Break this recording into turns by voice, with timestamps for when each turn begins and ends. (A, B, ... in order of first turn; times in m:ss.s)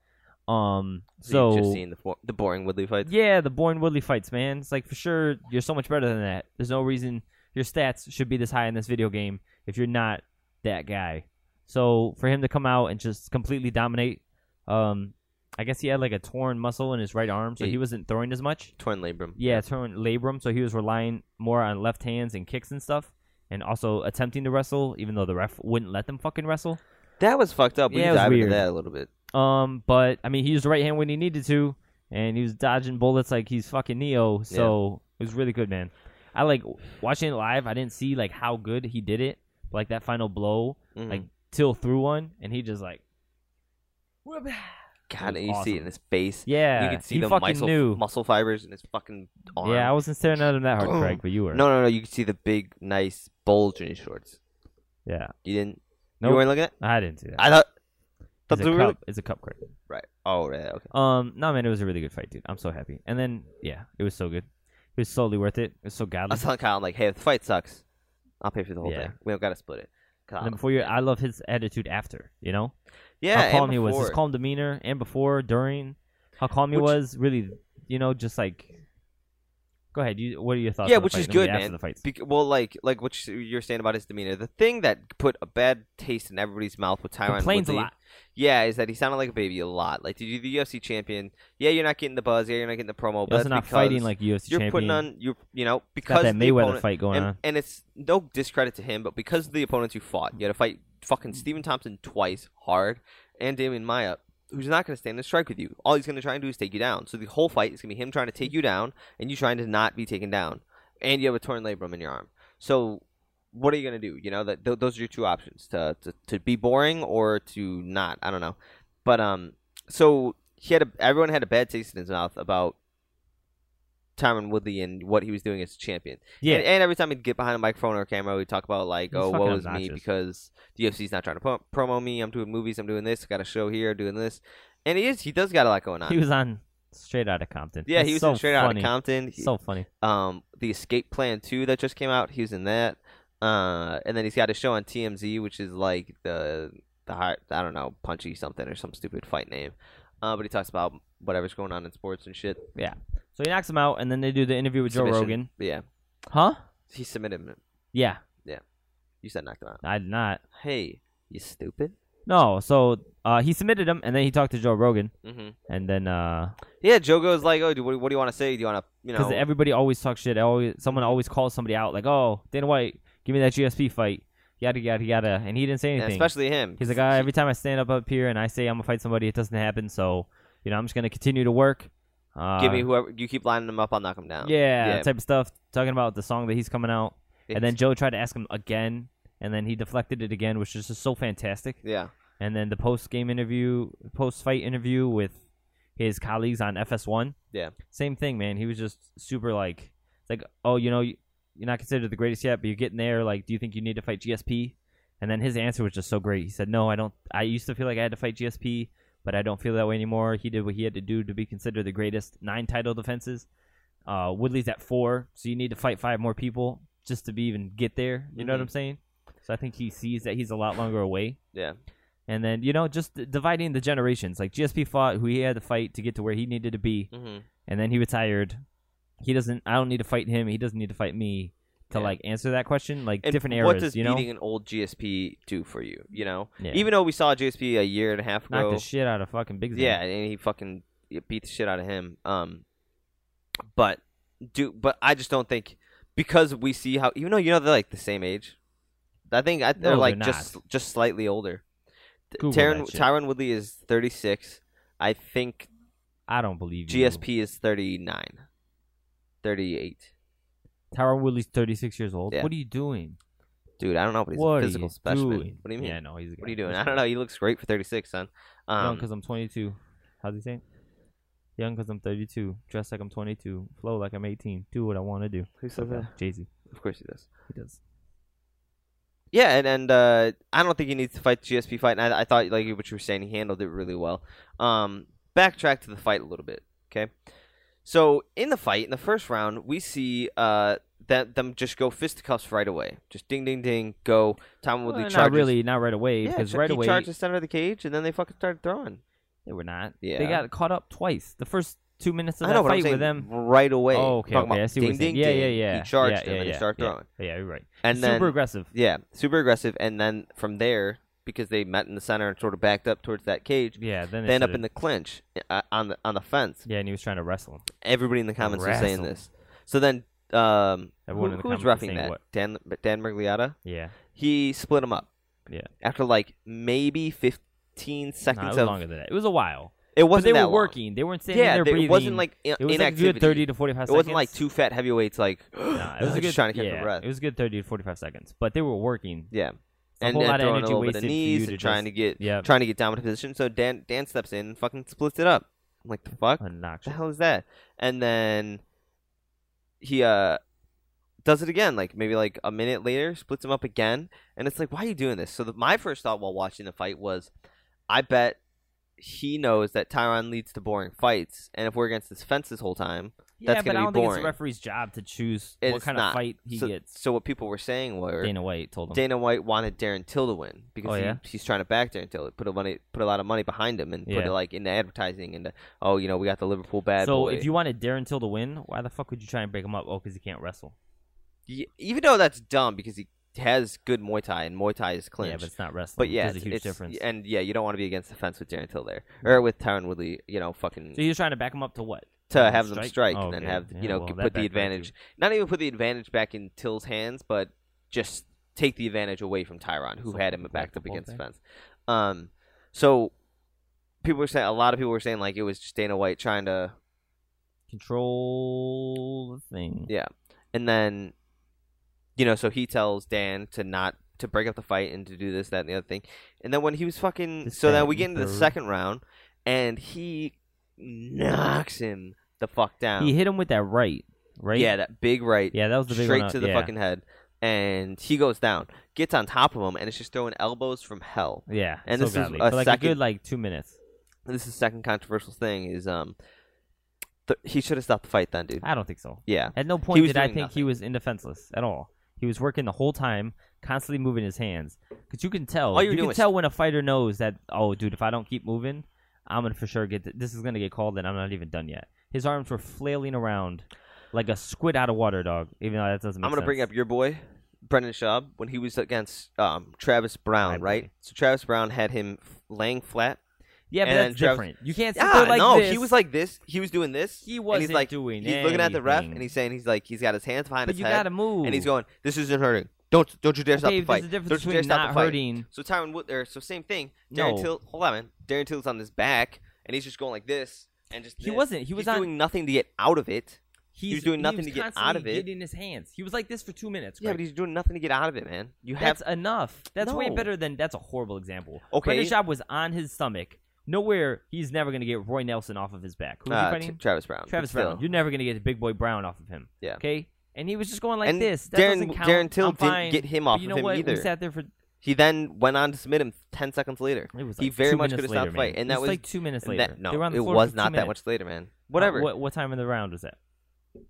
0:00.5-0:01.8 A
0:01.2-0:03.1 B
0:03.0-0:18.7 A
0:18.8-0:19.6 B
0:19.4-0:26.8 A
0:27.2-0:29.1 B
0:27.9-0:28.6 A
0:29.3-0:43.0 A
0:34.5-0:34.7 B
0:40.9-0:41.2 B
0:44.2-0:45.9 A
0:45.1-0:49.9 B
0:46.4-0:48.0 A
0:49.6-0:51.6 A
0:50.8-0:54.4 B
0:55.0-0:55.3 A
0:55.4-0:56.7 B
0:56.2-0:57.4 A
0:57.4-0:57.7 B
0:58.5-0:59.0 B
0:58.5-0:59.6 A
0:59.9-1:00.9 B
1:00.9-1:06.4 A
1:06.3-1:07.8 B
1:08.4-1:10.9 B
1:08.8-1:09.1 A
1:10.4-1:12.7 A
1:13.2-1:14.2 B
1:13.3-1:18.8 A
1:19.9-1:22.0 A
1:20.8-2:02.8 B
1:27.2-1:27.9 A
1:33.3-1:35.0 A
1:36.0-1:37.4 A
2:04.2-2:16.2 B
2:06.4-2:06.7 A
2:09.1-2:10.0 A
2:16.1-2:19.9 A
2:17.9-2:19.5 B
2:20.0-2:32.6 B
2:32.7-2:35.5 A
2:34.9-2:35.8 B
2:36.3-2:36.6 A
2:36.9-2:37.6 B
2:37.9-2:38.2 A
2:39.2-2:39.8 B
2:39.8-2:40.4 A
2:40.5-2:41.9 B
2:42.2-2:45.1 A
2:45.2-2:45.6 B
2:45.7-2:46.6 A
2:46.8-2:49.4 B
2:49.1-3:02.9 A
2:50.9-2:51.2 B
2:56.0-2:57.3 B
3:02.6-3:05.1 B
3:04.4-3:11.8 A
3:07.5-3:07.7 B
3:11.8-3:12.1 B
3:12.4-3:15.4 A
3:16.0-3:17.4 A
3:17.9-3:33.5 A
3:34.1-3:41.4 A
3:38.4-3:38.7 B
3:42.3-3:47.1 A
3:47.1-3:47.4 B
3:47.6-3:48.6 A
3:49.2-3:54.3 A
3:51.9-3:52.2 B
3:53.2-3:58.8 B
3:56.6-3:56.9 A
3:58.5-4:00.0 A
3:59.7-4:02.6 B
4:03.7-4:08.6 B
4:09.3-4:11.6 B
4:09.8-4:10.6 A
4:12.3-4:15.7 B
4:12.4-4:13.1 A
4:16.3-4:17.2 A
4:16.9-4:18.4 B
4:19.4-4:20.1 B
4:20.9-4:23.2 A
4:23.8-4:29.0 B
4:24.3-4:27.0 A
4:28.8-4:30.6 A
4:31.6-4:36.5 A
4:35.6-4:36.1 B
4:36.7-4:37.3 B
4:37.5-4:37.8 A
4:39.3-4:47.1 B
4:47.8-4:55.5 B
4:54.8-4:57.1 A
4:56.2-4:59.0 B
4:59.4-5:03.3 A
5:00.0-5:00.4 B
5:02.4-5:07.1 B
5:03.9-5:08.7 A
5:07.8-5:16.6 B
5:13.8-5:14.6 A
5:16.6-5:17.6 A
5:17.8-5:23.6 B
5:18.4-5:19.1 A
5:21.1-5:22.2 A
5:23.6-5:23.9 A
5:24.1-5:25.1 B
5:25.8-5:28.8 B
5:28.3-5:34.4 A
5:29.9-5:30.8 B
5:31.3-5:37.0 B
5:35.7-5:39.3 A
5:39.3-5:48.6 B
5:40.0-5:42.5 A
5:46.4-5:47.0 A
5:49.8-5:50.4 B
5:51.2-5:57.3 B
5:57.9-5:58.4 B
5:59.0-6:04.3 B
6:03.4-6:06.9 A
6:05.6-6:08.3 B
6:08.2-6:09.0 A
6:08.9-6:17.5 B
6:10.8-6:11.2 A
6:14.1-6:14.3 A
6:17.0-6:20.7 A
6:21.5-6:31.0 B
6:25.2-6:27.0 A
6:30.9-6:34.9 A
6:32.3-6:43.1 B
6:40.1-6:41.2 A
6:44.0-6:46.7 B
6:47.7-6:49.9 A
6:49.9-6:51.1 B
6:52.2-7:03.1 B
6:57.4-6:58.5 A
7:03.0-7:04.7 A
7:04.5-7:13.0 B
7:05.5-7:06.7 A
7:11.5-7:13.8 A
7:14.2-7:16.1 B
7:17.3-7:18.6 B
7:18.6-7:36.7 A
7:19.2-7:20.7 B
7:25.7-7:26.3 B
7:36.2-7:43.2 B
7:40.4-7:40.9 A
7:43.7-7:45.9 A
7:43.8-8:05.2 B
7:47.2-7:49.3 A
7:50.6-7:51.7 A
7:53.5-7:55.5 A
7:57.1-7:57.5 A
8:01.2-8:02.1 A
8:03.7-8:07.2 A
8:07.0-8:09.0 B
8:08.8-8:24.5 A
8:09.8-8:10.3 B
8:11.7-8:12.1 B
8:16.3-8:17.8 B
8:21.0-8:24.1 B
8:24.8-8:32.1 B
8:27.1-8:30.9 A
8:31.7-8:33.2 A